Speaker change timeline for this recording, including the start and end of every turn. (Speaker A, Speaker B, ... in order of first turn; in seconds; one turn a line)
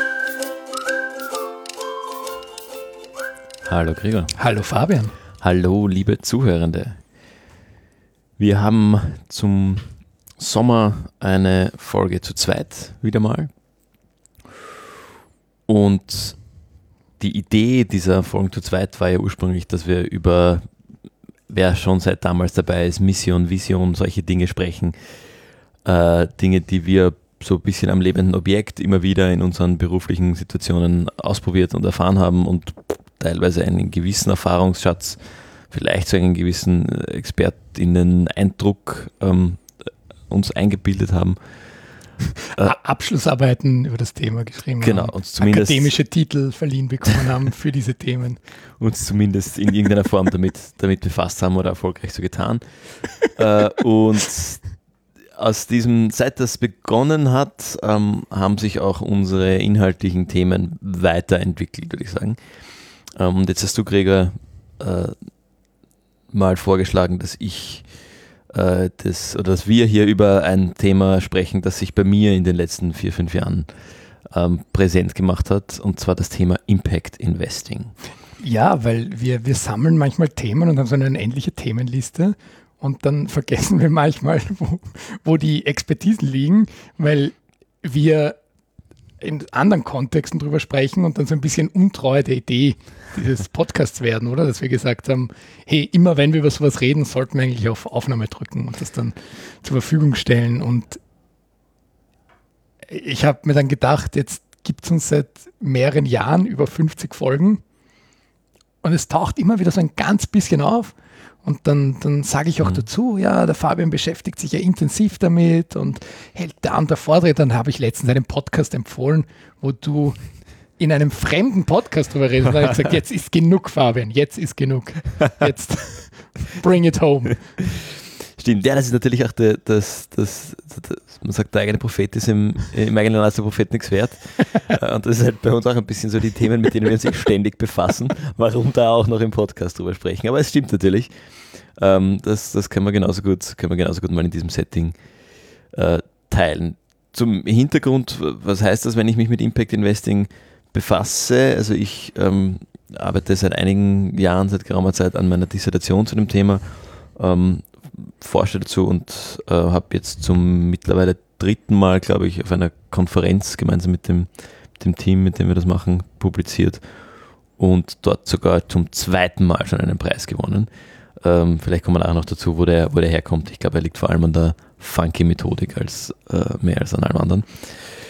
Speaker A: 3.7-4.3
Speaker B: 4.3-5.1
Speaker A: 5.4-7.0
Speaker A: 8.4-13.5
Speaker A: 15.7-16.4
Speaker A: 17.2-20.6
Speaker A: 21.5-24.9
Speaker A: 25.9-35.2
Speaker A: 35.7-39.7
Speaker A: 40.3-41.4
Speaker B: 42.5-48.4
Speaker A: 44.8-45.9
Speaker A: 48.8-52.6
Speaker A: 53.2-54.6
Speaker A: 55.4-62.4
Speaker A: 63.2-65.2
Speaker A: 66.3-67.8
Speaker A: 68.5-73.7
Speaker A: 74.3-77.9
Speaker B: 78.4-88.4
Speaker B: 89.2-101.0
Speaker B: 102.8-107.6
Speaker B: 108.8-120.2
Speaker B: 120.8-127.4
Speaker A: 128.4-141.1
Speaker A: 141.8-144.9
Speaker A: 145.7-156.7
Speaker A: 157.2-166.8
Speaker A: 167.6-170.7
Speaker A: 171.2-177.7